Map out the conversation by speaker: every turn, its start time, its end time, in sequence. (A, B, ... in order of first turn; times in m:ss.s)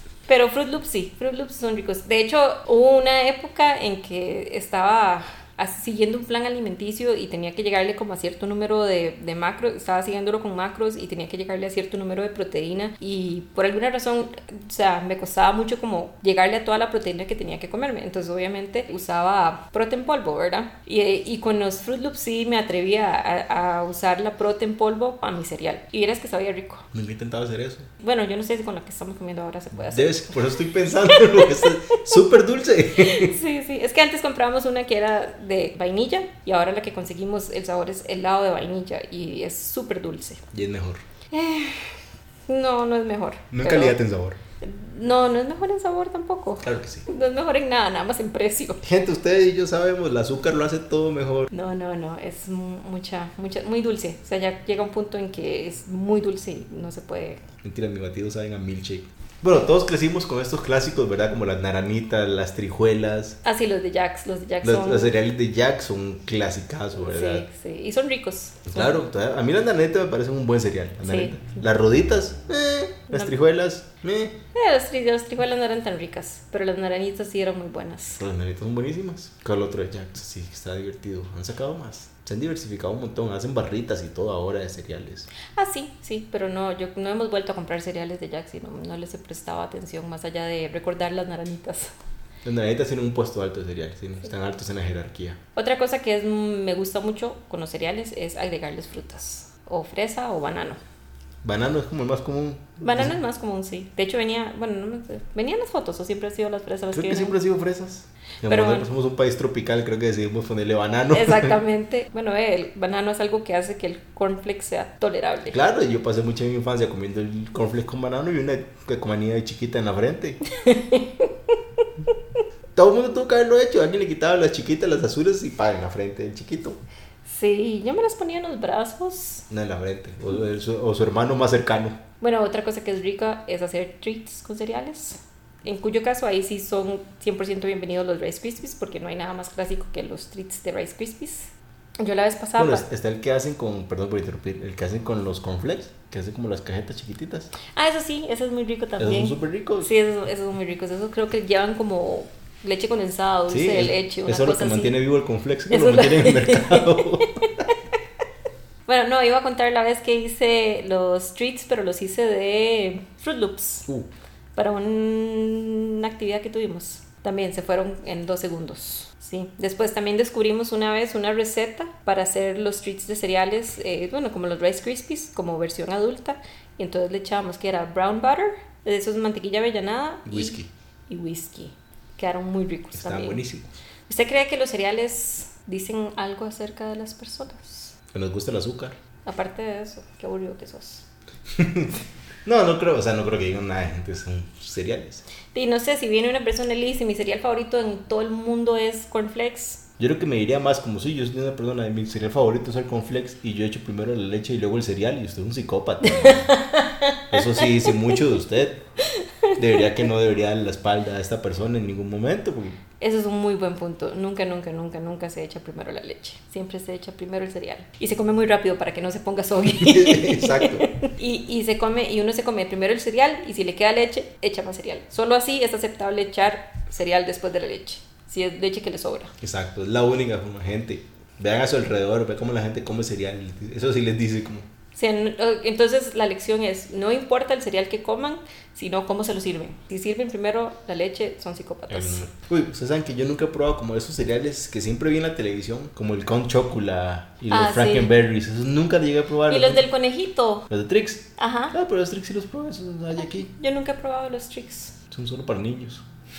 0:00.3-0:26.8 A
0:26.9-0:27.9 B
0:28.0-0:32.0 A
0:29.9-0:33.3 B
0:33.0-0:40.4 A
0:40.5-0:41.0 B
0:41.3-0:44.0 A
0:43.5-0:44.4 B
0:44.6-0:48.8 A
0:46.6-0:47.1 B
0:48.8-0:51.5 B
0:51.5-0:57.4 A
0:57.6-1:03.4 B
1:03.4-1:05.2 A
1:04.6-1:07.4 B
1:07.0-1:09.0 A
1:08.7-1:14.4 B
1:11.0-1:11.5 A
1:14.5-1:18.2 A
1:18.2-1:25.3 B
1:25.4-1:31.9 A
1:32.4-1:35.4 B
1:35.6-1:40.8 A
1:41.4-1:43.2 B
1:42.8-1:47.4 A
1:46.9-1:51.6 B
1:48.5-1:48.9 A
1:51.1-1:55.6 A
1:55.5-2:00.4 B
2:00.5-2:01.6 A
2:02.8-2:06.8 B
2:07.3-2:09.5 A
2:09.5-2:12.0 B
2:12.2-2:22.8 A
2:22.6-2:27.5 B
2:27.7-2:35.0 A
2:29.0-2:29.9 B
2:33.5-2:37.3 B
2:35.7-2:37.7 A
2:38.9-2:43.9 A
2:44.6-3:03.4 A
3:00.3-3:00.7 B
3:02.9-3:03.7 B
3:04.1-3:07.9 A
3:08.1-3:09.0 B
3:09.3-3:11.0 A
3:11.5-3:15.2 B
3:15.5-3:19.8 A
3:20.0-3:26.5 B
3:26.0-3:28.2 A
3:27.3-3:28.8 B
3:29.1-3:30.0 A
3:29.6-3:32.8 B
3:33.0-3:49.3 A
3:39.7-3:40.9 B
3:49.4-3:54.7 B
3:55.0-4:02.2 A
4:01.9-4:09.8 B
4:07.5-4:08.1 A
4:09.5-4:10.7 A
4:10.7-4:13.5 B
4:11.4-4:11.8 A
4:13.2-4:15.0 A
4:15.1-4:16.0 B